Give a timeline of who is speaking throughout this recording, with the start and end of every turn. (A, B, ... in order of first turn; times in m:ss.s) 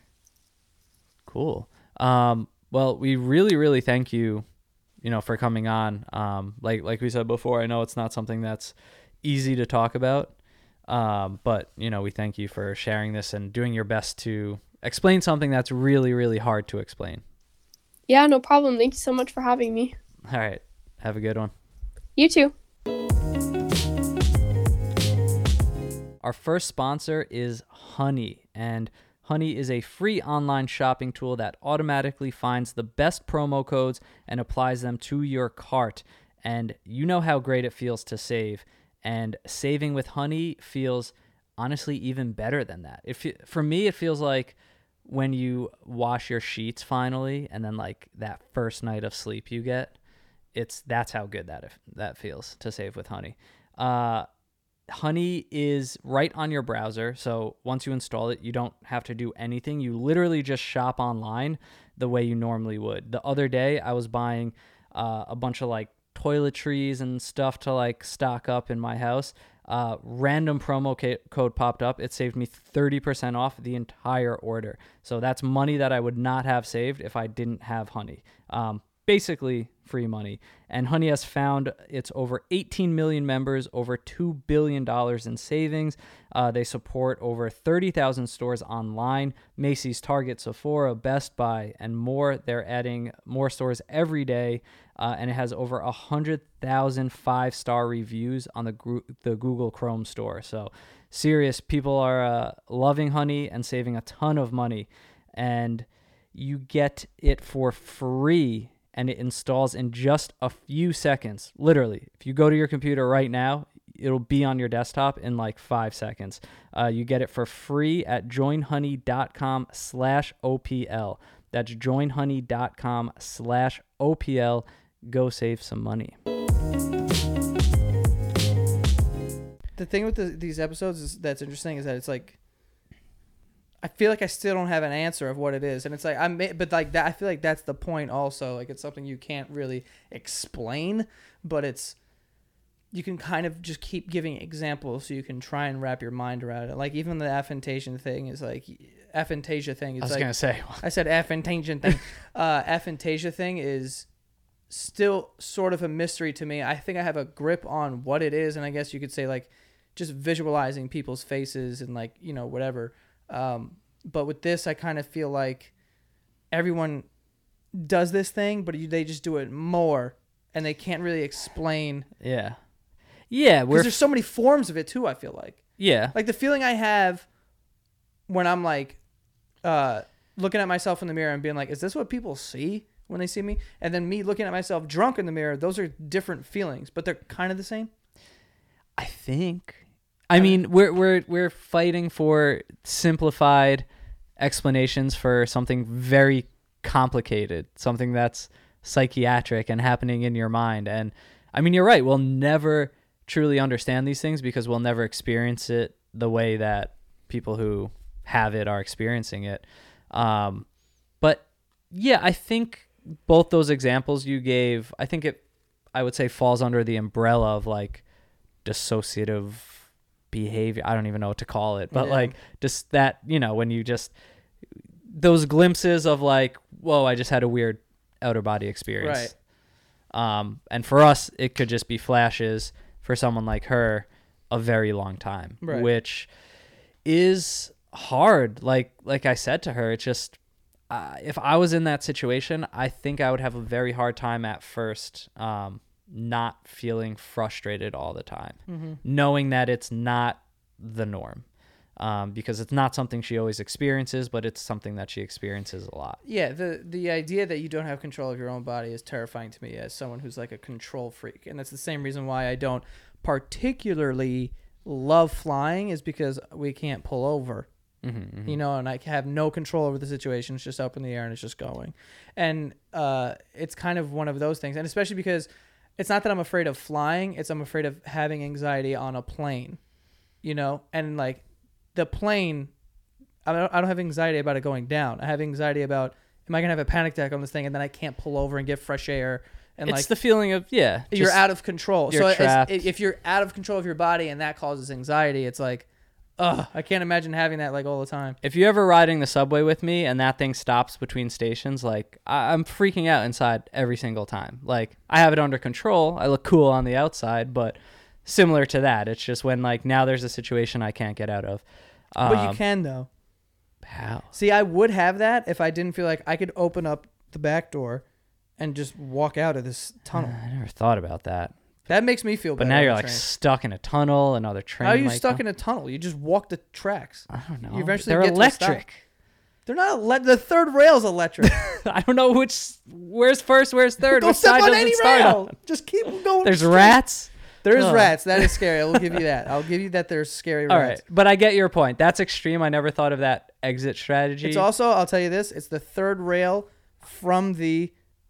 0:01.3-0:04.4 A
0:05.0-0:10.3 A
0:10.9-0:17.2 A
0:18.1-0:19.9 B
0:20.3-0:21.5 A
0:22.2-0:22.5 B
0:26.2-0:50.0 A
0:50.5-0:54.2 A
0:54.9-2:06.1 A
2:09.8-2:12.4 C
2:13.8-2:22.0 C
2:22.9-2:34.1 C
2:30.0-2:30.8 A
2:34.7-2:45.7 C
2:46.5-2:47.1 C
2:47.7-2:52.1 C
2:52.2-2:52.6 A
2:53.3-2:54.0 A
2:53.7-2:57.3 C
2:55.8-2:56.1 A
2:58.3-2:59.0 C
2:59.6-3:07.9 C
3:09.0-3:13.8 A
3:14.4-3:30.6 A
3:31.2-3:35.4 A
3:35.9-3:38.0 A
3:38.6-3:44.1 A
3:41.9-3:42.3 C
3:45.1-3:49.3 A
3:49.0-3:49.3 C
3:50.1-3:56.3 A
3:55.6-3:55.9 C
3:57.0-4:00.4 A
4:00.9-4:11.4 A
4:08.7-4:09.0 C
4:12.0-4:16.2 A
4:16.2-4:27.7 C
4:28.0-4:28.6 A
4:28.4-4:39.8 C
4:40.4-4:41.4 C
4:41.9-4:42.7 C
4:43.4-4:50.1 C
4:49.8-4:51.4 A
4:51.1-4:55.8 C
4:52.1-4:52.8 A
4:56.4-4:58.4 C
4:58.4-5:12.6 A
5:12.2-5:13.1 C
5:13.8-5:14.3 A
5:14.3-5:18.0 C
5:18.6-5:20.4 C
5:20.1-5:21.5 A
5:21.9-5:23.2 C
5:22.6-5:25.4 A
5:24.8-5:28.8 C
5:27.3-5:29.0 A
5:29.6-5:31.7 C
5:31.4-5:35.5 A
5:34.1-5:37.0 C
5:36.4-5:39.1 A
5:37.6-5:41.0 C
5:40.7-5:44.6 A
5:44.4-5:47.9 C